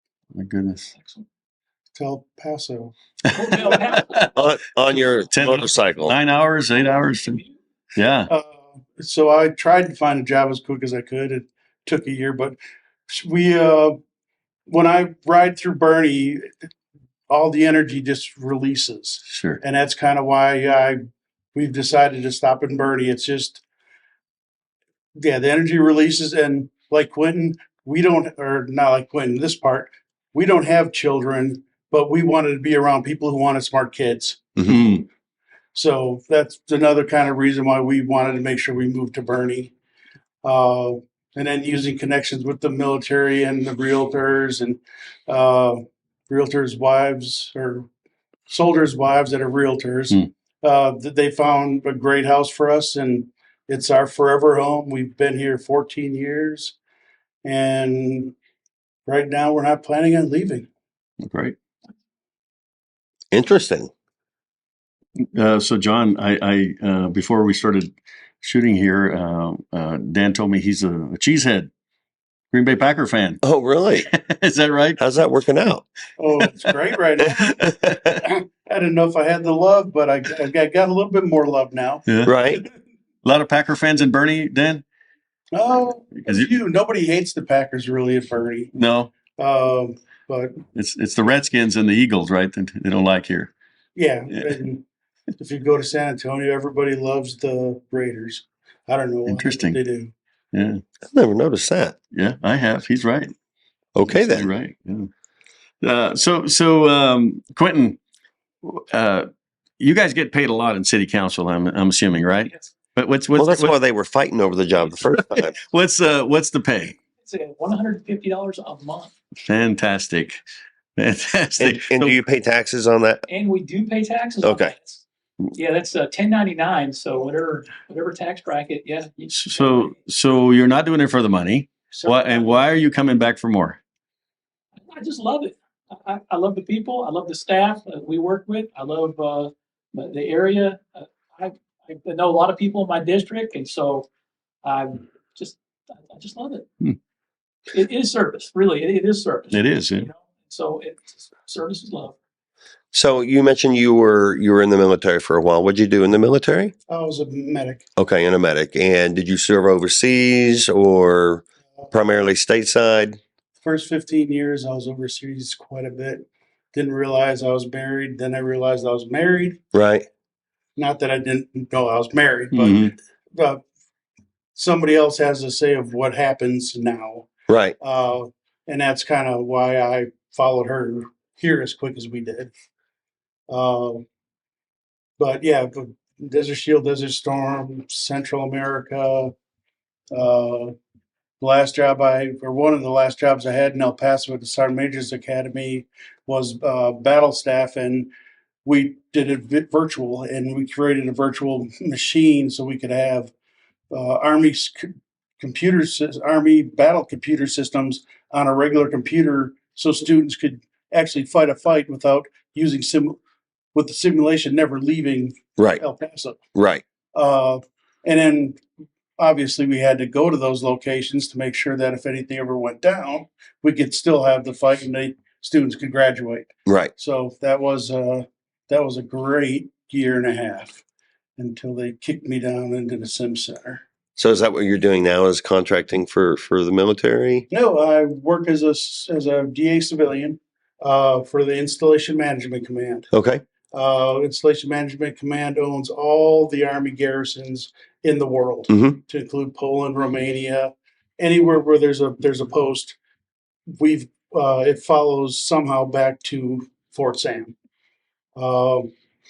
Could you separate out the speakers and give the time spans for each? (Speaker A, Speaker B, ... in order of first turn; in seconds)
Speaker A: 0.3-0.9, 3.6-4.2, 5.3-7.4, 8.0-8.3, 19.3-19.6, 34.7-35.0, 61.2-61.5, 65.3-71.7, 72.5-73.4, 74.0-75.0, 82.1-82.3, 83.2-84.8, 86.2-86.5, 88.7-89.1, 90.7-93.5, 99.3-99.8, 100.5-100.8, 102.1-103.3, 104.0-105.1, 105.8-108.0, 108.6-109.3, 109.8-113.7, 115.3-117.0, 119.4-120.4, 121.0-122.2, 129.3-133.8, 149.5-150.1, 172.5-172.9
Speaker B: 1.9-2.9, 8.3-12.6, 13.1-13.9, 14.7-16.7, 17.3-21.0, 21.5-23.6, 25.2-34.7, 35.7-39.7, 40.4-47.9, 48.5-56.8, 57.4-58.3, 59.0-60.7, 76.2-82.0, 85.5-88.7, 89.3-90.6, 93.9-94.8, 95.4-100.1, 156.9-157.8, 163.6-169.6, 170.8-173.6, 174.5-177.3, 177.8-182.5, 183.5-184.0, 185.2-189.3, 190.1-190.7, 191.4-198.1, 198.6-203.3, 203.9-213.2, 213.7-216.4, 217.1-218.6, 219.2-230.8, 231.4-233.8, 237.5-243.1, 243.7-253.0, 253.8-257.5, 258.4-258.9
Speaker C: 3.3-4.3, 117.2-119.1, 123.3-129.9, 131.9-132.6, 134.9-144.1, 144.6-146.7, 147.7-152.2
Speaker D: 4.3-6.1, 63.3-63.9, 73.4-74.1, 75.0-75.8, 77.5-78.2, 82.2-82.6, 101.1-101.9, 103.9-104.5, 113.3-115.6, 121.6-123.2, 124.4-124.7, 152.9-156.7, 157.9-163.2, 169.7-170.1, 177.5-177.8, 215.6-215.8, 216.5-216.8, 226.7-226.9, 234.2-237.4, 243.1-243.4, 248.7-249.0